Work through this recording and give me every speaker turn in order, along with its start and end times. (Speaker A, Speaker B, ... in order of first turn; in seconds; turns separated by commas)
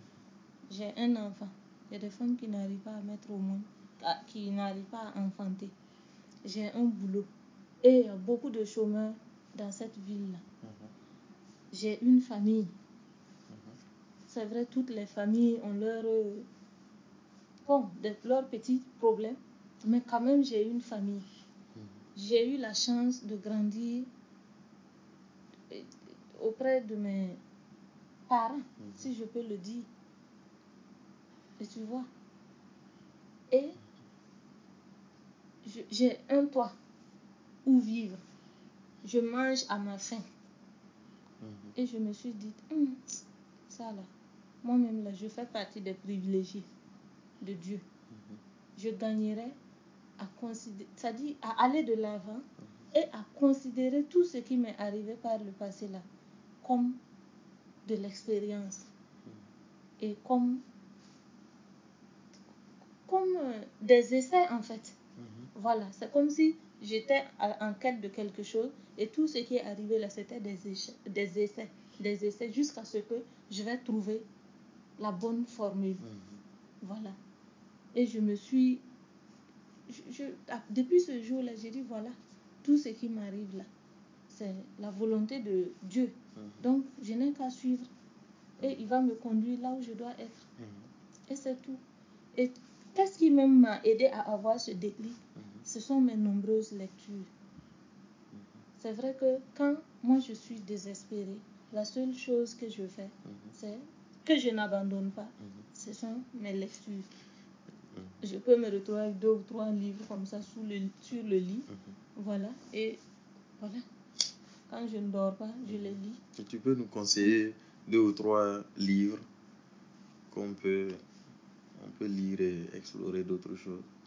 Speaker A: 0.7-5.7, Speaker A: 6.4-7.3, Speaker A: 7.8-10.4, Speaker B: 10.6-10.9, Speaker A: 11.7-12.7, Speaker B: 13.5-13.8, Speaker A: 14.3-16.5, Speaker A: 17.6-21.2, Speaker A: 22.1-24.1, Speaker A: 25.7-27.4, Speaker A: 28.3-29.9, Speaker B: 28.8-29.1, Speaker A: 31.6-32.1, Speaker A: 33.5-33.8, Speaker A: 35.6-36.7, Speaker A: 37.6-38.2, Speaker A: 39.0-40.2, Speaker B: 41.4-41.7, Speaker A: 41.8-44.1, Speaker A: 44.6-46.6, Speaker A: 47.4-47.8, Speaker B: 48.1-48.4, Speaker A: 48.8-49.6, Speaker A: 50.2-56.0, Speaker A: 56.6-57.0, Speaker A: 57.8-58.9, Speaker A: 60.0-60.6, Speaker A: 63.1-65.0, Speaker B: 65.2-65.5, Speaker A: 65.5-74.2, Speaker A: 75.0-76.0, Speaker B: 76.0-76.4, Speaker A: 76.8-77.2, Speaker A: 77.9-78.8, Speaker A: 79.9-83.7, Speaker A: 84.3-87.9, Speaker B: 86.3-86.6, Speaker A: 88.6-90.4, Speaker B: 90.6-90.9, Speaker A: 91.3-91.8, Speaker A: 92.3-97.3, Speaker B: 95.4-95.6, Speaker A: 98.8-107.1, Speaker B: 103.2-103.5, Speaker A: 108.2-113.0, Speaker A: 113.6-113.8, Speaker A: 114.7-116.2, Speaker B: 115.6-119.2, Speaker B: 120.3-121.0, Speaker B: 121.8-123.9